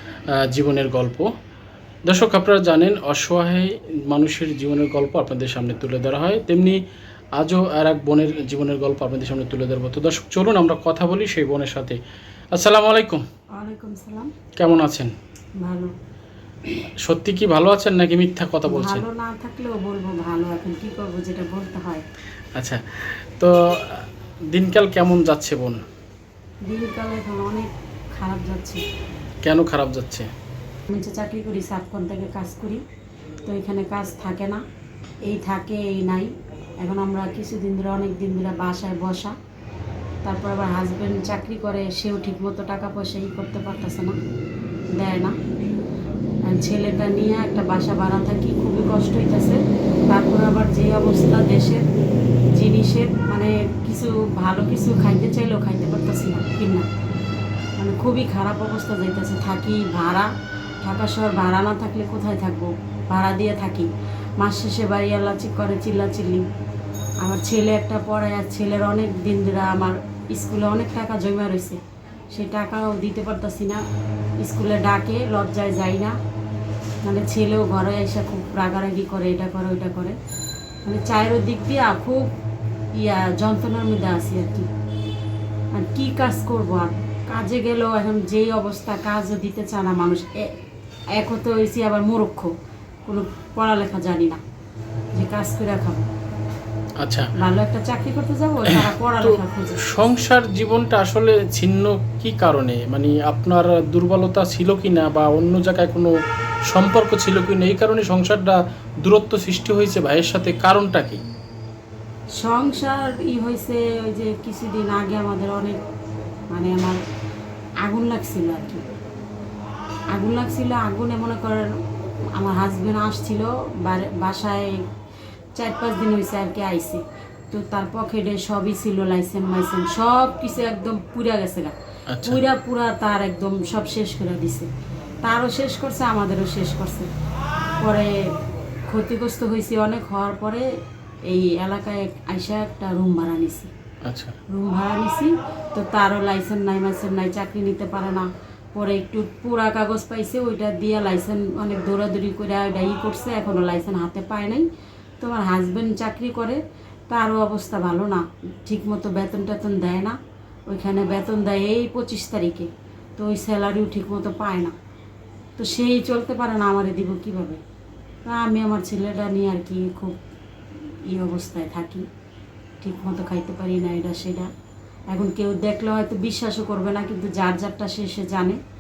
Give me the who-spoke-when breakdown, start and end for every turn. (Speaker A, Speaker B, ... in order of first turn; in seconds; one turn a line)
Speaker A: 0.4-1.3
Speaker A: 2.1-6.8
Speaker A: 7.4-12.0
Speaker A: 12.5-13.2
Speaker B: 13.6-14.3
Speaker A: 14.6-15.1
Speaker B: 15.6-15.9
Speaker A: 17.1-19.0
Speaker B: 18.7-22.1
Speaker A: 22.6-25.8
Speaker B: 26.7-28.8
Speaker A: 29.4-30.3
Speaker B: 30.9-32.8
Speaker B: 33.5-34.6
Speaker B: 35.2-39.4
Speaker B: 40.2-44.2
Speaker B: 45.0-45.4
Speaker B: 46.5-51.8
Speaker B: 52.6-56.9
Speaker B: 57.8-60.3
Speaker B: 60.8-66.5
Speaker B: 67.2-71.8
Speaker B: 72.3-73.8
Speaker B: 74.4-76.2
Speaker B: 77.0-80.2
Speaker B: 80.8-82.3
Speaker B: 83.0-84.7
Speaker B: 85.8-90.5
Speaker B: 91.2-92.5
Speaker B: 93.1-94.4
Speaker B: 95.2-96.0
Speaker A: 97.0-97.3
Speaker B: 97.4-99.8
Speaker A: 99.2-106.1
Speaker A: 106.7-111.2
Speaker B: 112.4-115.8
Speaker B: 116.5-117.0
Speaker B: 117.8-118.8
Speaker B: 120.1-121.8
Speaker B: 122.3-124.8
Speaker B: 125.6-134.7
Speaker A: 132.1-132.4
Speaker B: 135.2-137.1
Speaker B: 137.8-138.2
Speaker B: 138.9-140.7
Speaker B: 141.3-143.7
Speaker A: 144.1-144.4
Speaker B: 144.5-154.7
Speaker B: 155.2-164.7
Speaker B: 165.6-167.6
Speaker B: 168.3-170.2
Speaker B: 171.1-172.1
Speaker B: 172.8-174.5
Speaker B: 175.1-178.6